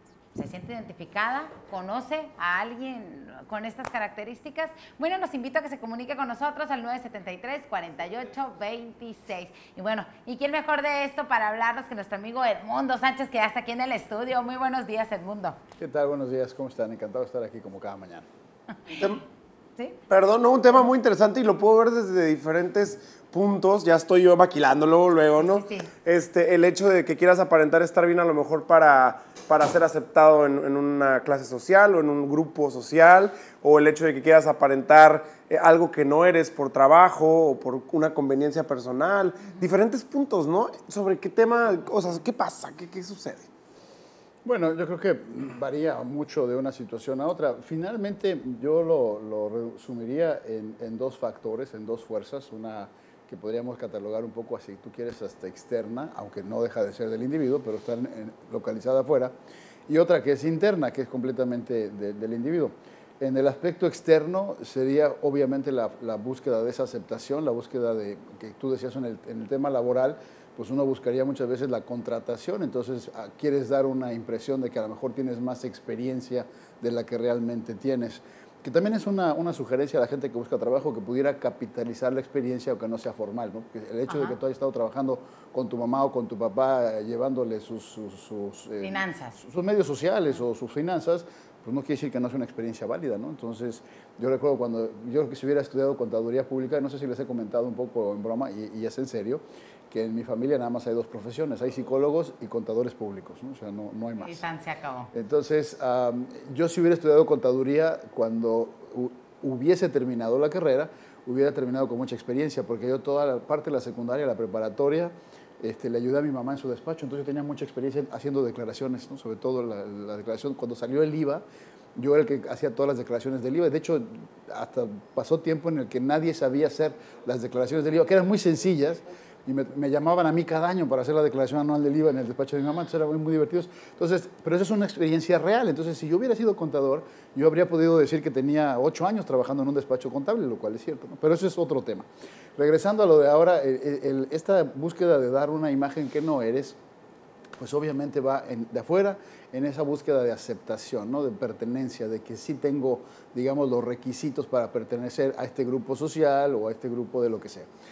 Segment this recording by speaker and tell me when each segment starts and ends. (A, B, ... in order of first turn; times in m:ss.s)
0:00.3-0:15.6 A
0:15.8-0:18.3 B
0:20.1-0:43.5 C
0:25.4-0:25.9 A
0:44.4-0:59.4 B
0:59.9-1:44.4 B
1:24.1-1:24.4 A
1:28.8-1:29.4 A
1:44.2-1:45.1 A
1:45.1-2:01.4 B
2:02.0-2:26.8 B
2:27.6-2:37.7 B